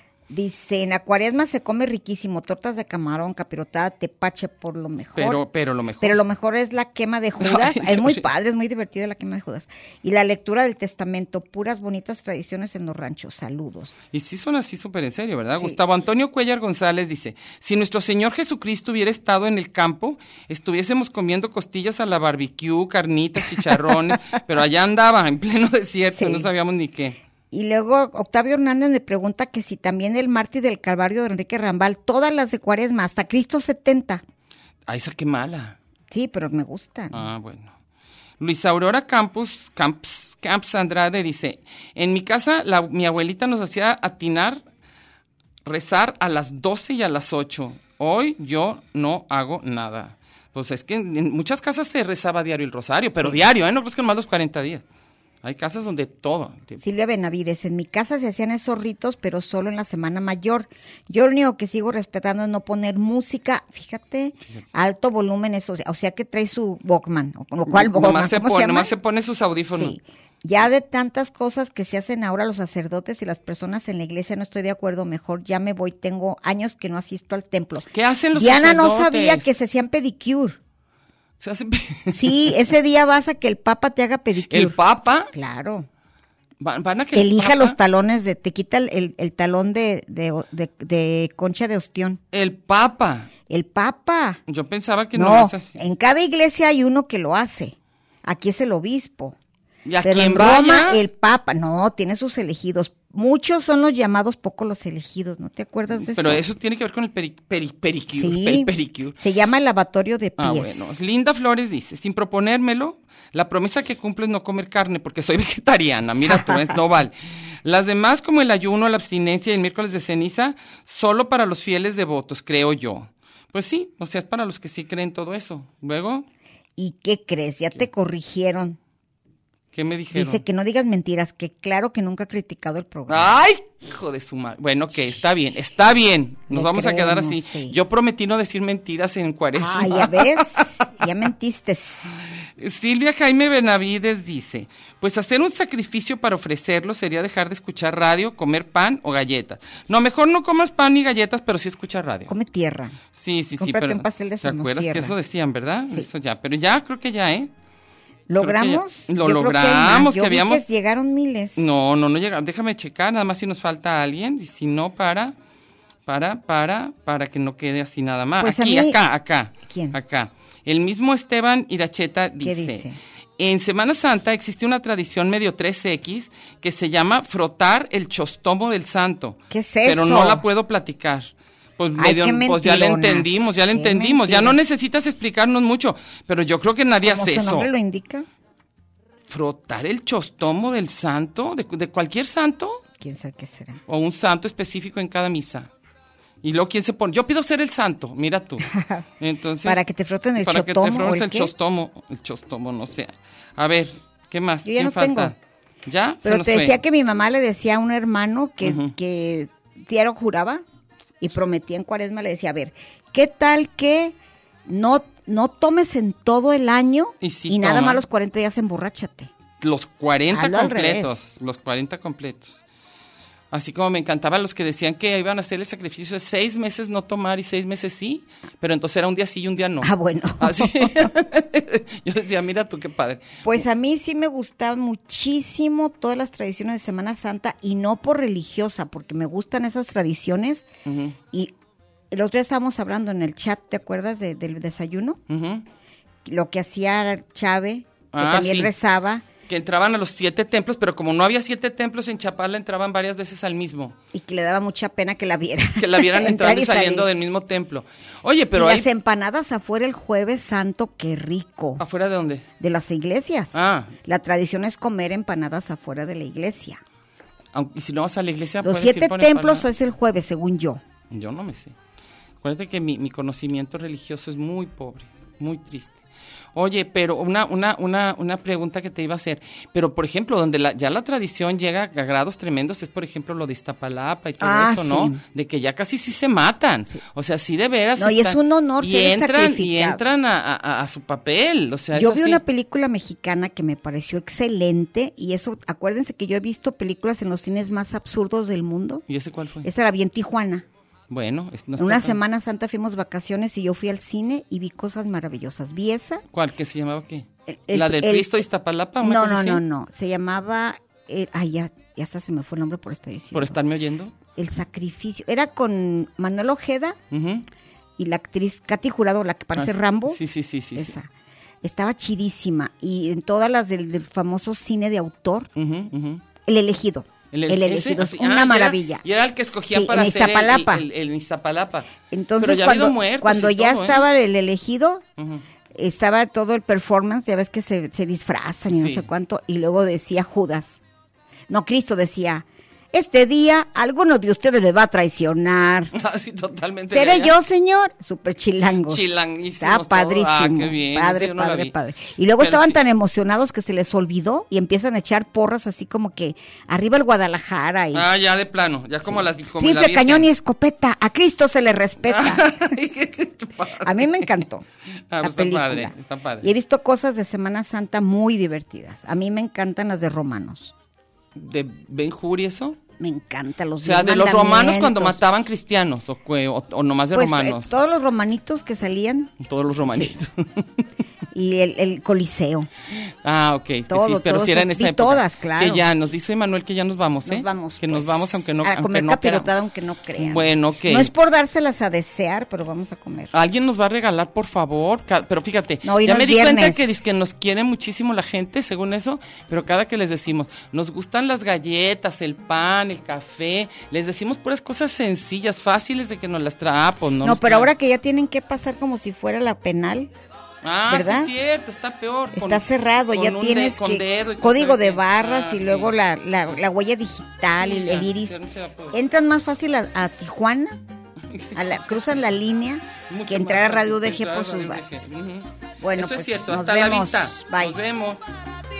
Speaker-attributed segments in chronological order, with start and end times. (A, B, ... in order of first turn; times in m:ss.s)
0:00.3-0:05.4 A
0:05.2-0:06.2 B
0:06.0-0:13.9 A
0:07.4-0:08.2 B
0:14.1-0:27.2 B
0:26.1-0:26.5 A
0:27.5-0:34.2 A
0:34.9-0:35.8 B
0:36.1-0:37.2 A
0:37.1-0:37.7 B
0:38.4-0:44.6 B
0:45.6-0:54.8 B
0:55.4-0:56.8 B
0:56.8-1:08.9 A
1:07.7-1:10.0 B
1:09.7-1:20.6 A
1:17.9-1:19.5 B
1:21.4-1:22.5 B
1:22.1-1:24.8 A
1:24.5-1:25.3 B
1:25.3-1:25.9 A
1:26.6-1:27.8 B
1:27.1-1:32.2 A
1:32.3-1:33.3 B
1:33.5-1:34.4 A
1:34.5-1:35.8 B
1:35.1-1:39.4 A
1:39.8-1:41.0 B
1:40.0-1:46.4 A
1:45.9-1:49.2 B
1:48.1-1:51.0 A
1:50.4-1:57.1 B
1:56.3-1:56.6 A
1:57.6-2:06.2 B
2:06.8-2:08.8 A
2:09.7-2:10.4 B
2:10.1-2:13.3 A
2:13.1-2:20.9 B
2:16.5-2:17.7 A
2:19.6-2:22.0 A
2:22.6-2:32.3 B
2:32.3-2:33.0 A
2:33.1-2:37.5 B
2:33.6-2:35.1 A
2:38.3-2:41.6 A
2:38.4-2:40.6 B
2:41.6-2:45.3 B
2:46.0-2:52.8 B
2:48.4-2:49.0 A
2:49.7-2:50.0 A
2:52.4-2:53.0 A
2:53.4-3:07.7 B
2:59.5-3:00.4 A
3:02.0-3:04.6 A
3:07.0-3:08.2 A
3:09.3-3:12.8 B
3:13.0-3:13.8 A
3:13.9-3:15.7 B
3:16.4-3:19.8 B
3:18.7-3:19.0 A
3:19.6-3:21.5 A
3:20.4-3:26.8 B
3:24.6-3:25.3 A
3:26.2-3:30.6 A
3:28.6-3:28.9 B
3:31.2-3:34.1 A
3:34.7-3:39.3 A
3:37.2-3:38.0 B
3:39.6-3:42.6 B
3:40.3-3:41.2 A
3:43.5-3:53.4 B
3:49.8-3:51.1 A
3:53.4-4:00.6 A
4:00.8-4:01.2 B
4:02.1-4:05.2 A
4:05.3-4:05.6 B
4:06.2-4:09.2 A
4:08.1-4:08.7 B
4:09.5-4:14.0 B
4:14.1-4:17.1 A
4:15.8-4:18.8 B
4:18.5-4:21.8 A
4:21.8-4:22.4 B
4:22.6-4:26.8 A
4:23.5-4:23.9 B
4:27.5-4:29.6 B
4:28.6-4:30.8 A
4:31.1-4:31.7 B
4:32.4-4:36.0 B
4:36.5-4:52.4 B
4:44.4-4:45.2 A
4:48.0-4:50.0 A
4:51.9-4:59.0 A
4:59.1-4:59.6 B
4:59.6-5:00.6 A
5:01.1-5:02.2 B
5:01.8-5:06.2 A
5:06.3-5:09.6 B
5:07.5-5:08.4 A
5:09.0-5:13.6 A
5:13.3-5:14.1 B
5:14.4-5:17.0 A
5:17.1-5:17.4 B
5:18.0-5:20.2 A
5:19.6-5:20.9 B
5:20.7-5:21.1 A
5:21.6-5:25.5 A
5:25.6-5:26.2 B
5:26.4-5:29.0 A
5:27.3-5:34.0 B
5:29.7-5:30.8 A
5:32.1-5:35.0 A
5:35.2-5:35.4 B
5:35.7-5:40.8 A
5:38.7-5:39.1 B
5:41.5-5:45.9 A
5:45.9-5:47.3 B
5:46.9-5:58.1 A
5:48.9-5:51.7 B
5:52.4-5:52.8 B
5:57.9-6:00.3 B
5:59.0-6:02.6 A
6:02.0-6:04.3 B
6:03.8-6:04.6 A
6:05.1-6:06.5 B
6:05.2-6:10.7 A
6:11.3-6:12.8 B
6:13.0-6:15.2 A
6:13.8-6:17.7 B
6:17.1-6:19.3 A
6:19.4-6:20.8 B
6:21.3-6:22.7 A
6:23.2-6:29.5 B
6:23.9-6:25.8 A
6:27.2-6:33.3 A
6:30.2-6:31.1 B
6:33.3-6:47.7 B
6:35.8-6:37.0 A
6:47.2-6:50.1 A
6:50.6-6:55.9 B
6:50.9-6:51.3 A
6:52.3-6:58.4 A
6:57.6-6:59.0 B
6:58.9-7:00.8 A
7:01.3-7:01.6 B
7:01.5-7:05.0 A
7:03.1-7:08.2 B
7:05.8-7:07.8 A